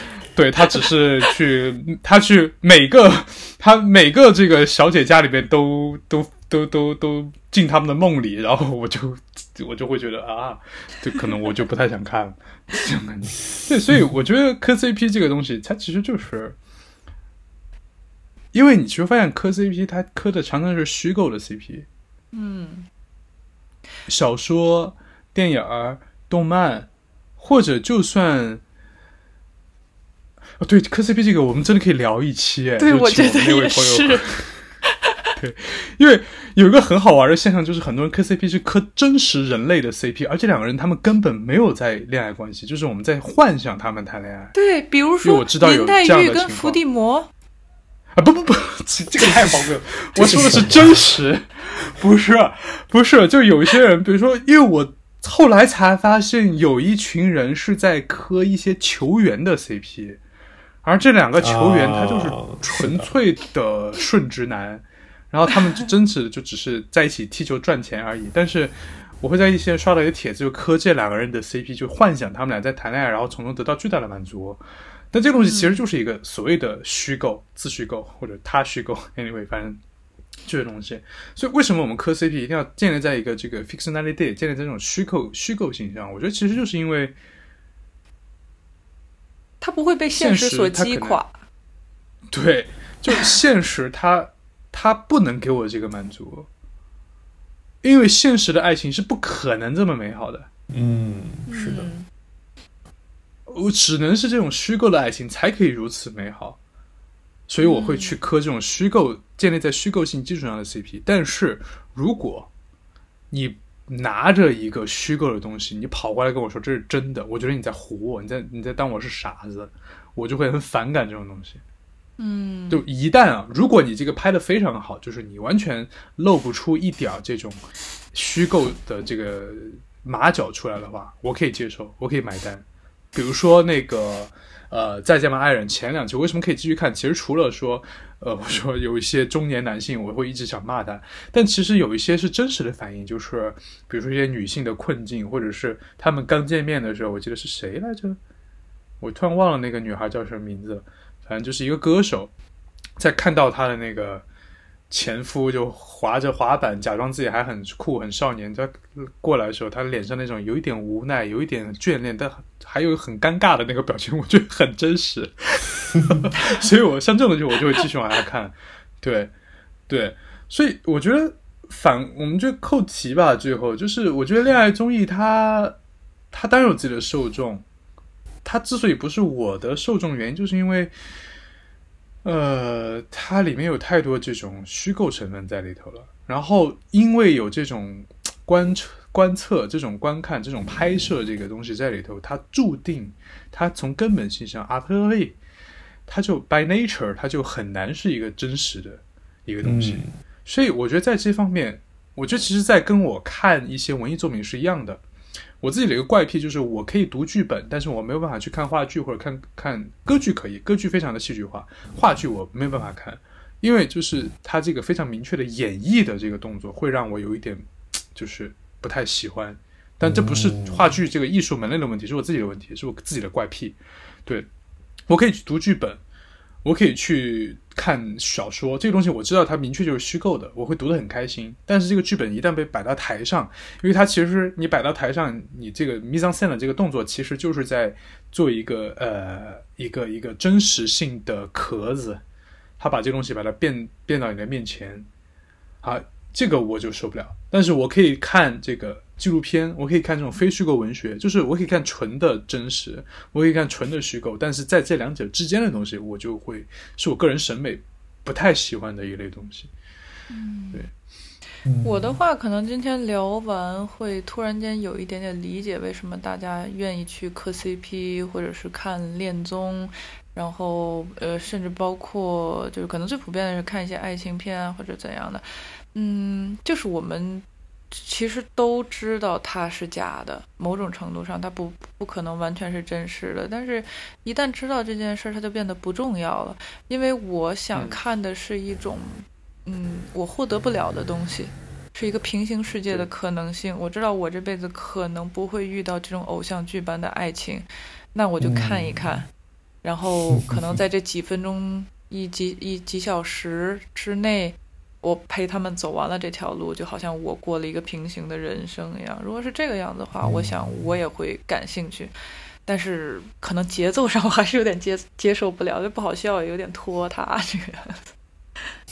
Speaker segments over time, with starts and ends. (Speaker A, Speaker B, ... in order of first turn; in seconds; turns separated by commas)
Speaker A: 0.3-16.6, Speaker A: 18.5-21.9, Speaker B: 22.3-22.9, Speaker A: 24.1-28.6, Speaker A: 30.6-34.6, Speaker B: 32.8-34.3, Speaker B: 34.8-35.3, Speaker A: 35.4-44.5, Speaker B: 44.5-47.3, Speaker A: 45.2-46.8, Speaker A: 48.1-60.2, Speaker C: 49.1-51.0, Speaker A: 60.8-74.6, Speaker C: 61.4-63.1, Speaker A: 75.1-79.8, Speaker B: 75.4-75.8, Speaker A: 80.4-87.1, Speaker B: 89.6-91.4, Speaker A: 90.1-91.2, Speaker A: 92.3-96.5, Speaker A: 97.8-100.5, Speaker C: 100.7-101.9, Speaker B: 101.5-102.1, Speaker A: 103.5-106.6, Speaker A: 107.5-112.5, Speaker B: 107.6-108.2, Speaker A: 113.3-121.6, Speaker B: 122.2-122.8, Speaker A: 122.7-127.6, Speaker A: 128.1-148.2, Speaker A: 149.0-152.3, Speaker A: 153.0-154.2, Speaker A: 154.9-169.3, Speaker A: 169.9-175.8, Speaker A: 176.3-177.6, Speaker A: 178.4-180.9, Speaker A: 182.2-195.3, Speaker A: 196.1-205.0, Speaker C: 199.6-200.1, Speaker A: 205.6-224.5, Speaker C: 220.0-220.9, Speaker A: 225.1-226.0, Speaker A: 226.6-242.2, Speaker A: 242.8-245.1, Speaker A: 245.8-259.7, Speaker B: 260.3-260.8, Speaker C: 261.6-262.2, Speaker B: 261.8-299.3, Speaker C: 298.4-299.2, Speaker B: 299.8-312.1, Speaker C: 300.3-300.8, Speaker C: 310.2-310.8, Speaker B: 312.6-318.1